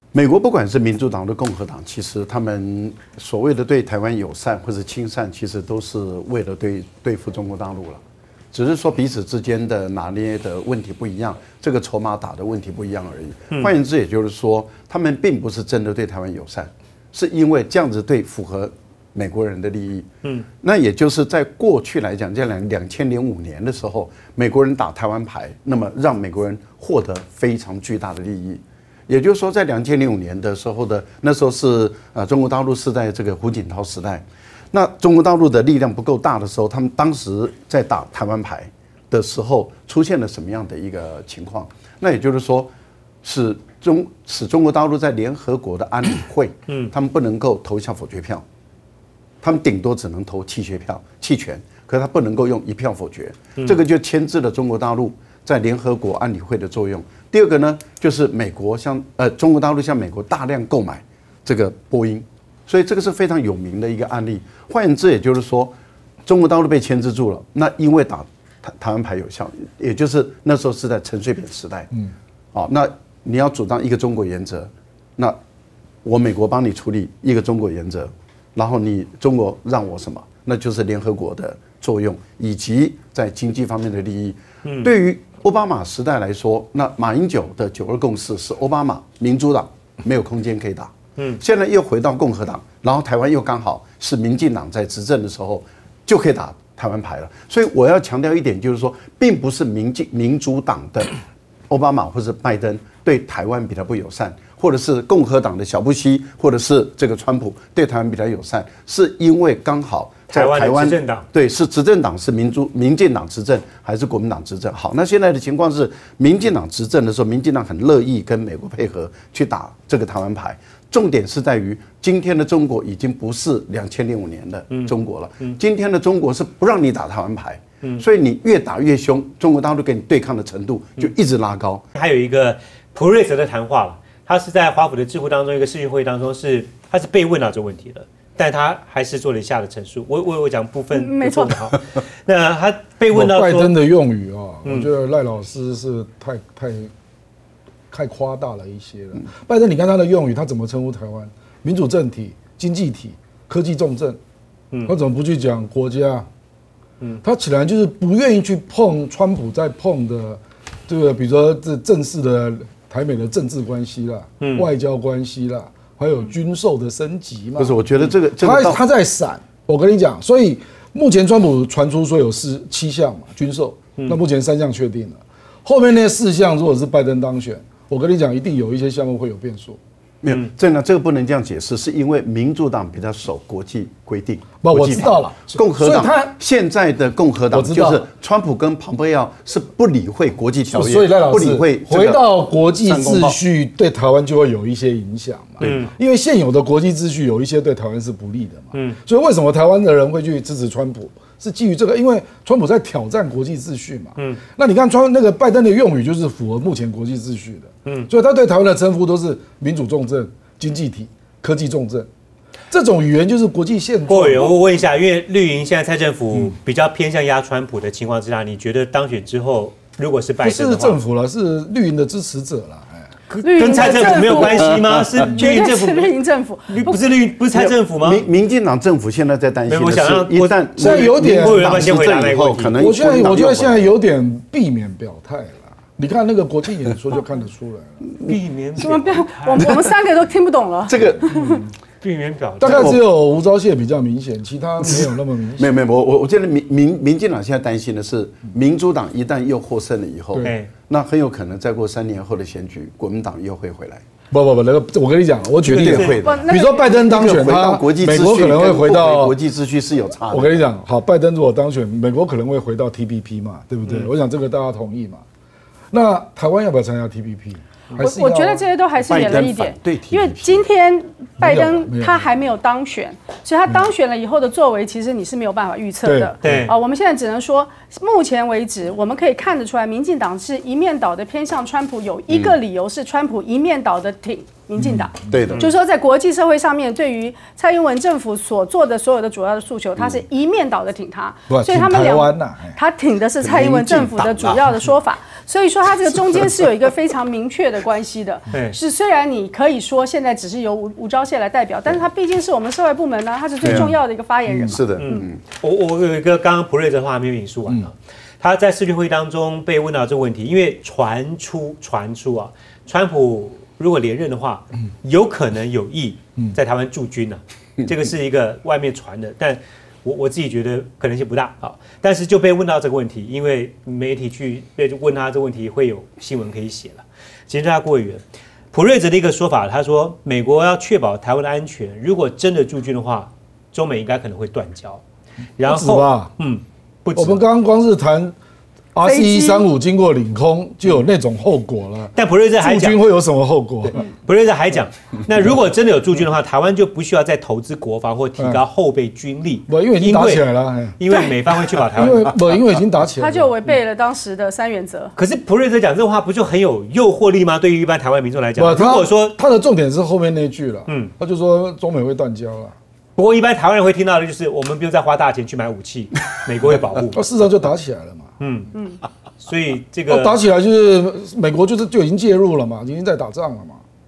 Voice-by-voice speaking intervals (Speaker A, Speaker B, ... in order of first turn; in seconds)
Speaker A: 0.1-8.0, 8.5-20.1, 20.6-42.7, 43.2-48.4, 49.4-65.7, 66.3-71.9, 72.5-75.4, 76.0-101.2, 101.7-131.8, 167.6-168.8, 180.2-193.4, 195.6-195.9, 224.2-225.3, 227.5-233.9, 240.9-241.3, 242.6-243.0, 245.6-254.0, 255.7-260.6, 269.0-270.7, 282.3-282.6, 285.3-285.7, 290.0-290.2, 293.4-294.7, 303.6-303.9, 304.6-305.4
Speaker B: 84.7-84.9, 110.3-111.3, 131.9-143.7, 144.6-144.9, 164.4-164.7, 195.6-195.9, 198.7-199.0, 214.1-221.0, 223.3-226.1, 226.7-228.2, 229.7-232.8, 238.2-239.8, 242.0-243.0, 250.4-250.7, 255.7-256.2, 276.4-276.7, 298.5-298.8, 305.0-335.0, 335.6-337.4, 342.1-343.0, 343.8-350.5, 351.0-352.4, 355.2-359.4, 360.9-361.1, 363.2-367.2, 368.4-368.8, 369.4-370.4
Speaker C: 140.9-141.6, 223.4-227.0, 238.8-241.6, 255.9-257.4, 268.0-305.3, 339.0-339.7, 353.2-355.1
Speaker D: 143.1-146.9, 147.9-154.2, 154.9-156.3, 157.2-167.8, 168.4-179.8, 184.6-186.3, 187.5-188.0, 190.7-212.1, 212.7-214.6, 220.4-223.1, 230.8-231.9, 232.8-238.1, 241.3-241.7, 242.6-245.7, 254.3-259.4, 260.3-265.2, 265.9-268.7, 271.4-272.3, 276.0-276.6, 284.8-285.1, 291.5-292.8, 303.6-303.9, 304.5-304.8, 335.6-336.3, 337.1-338.4, 338.9-344.0, 349.7-351.0, 351.9-353.6, 358.6-362.8, 367.1-368.3, 370.1-373.8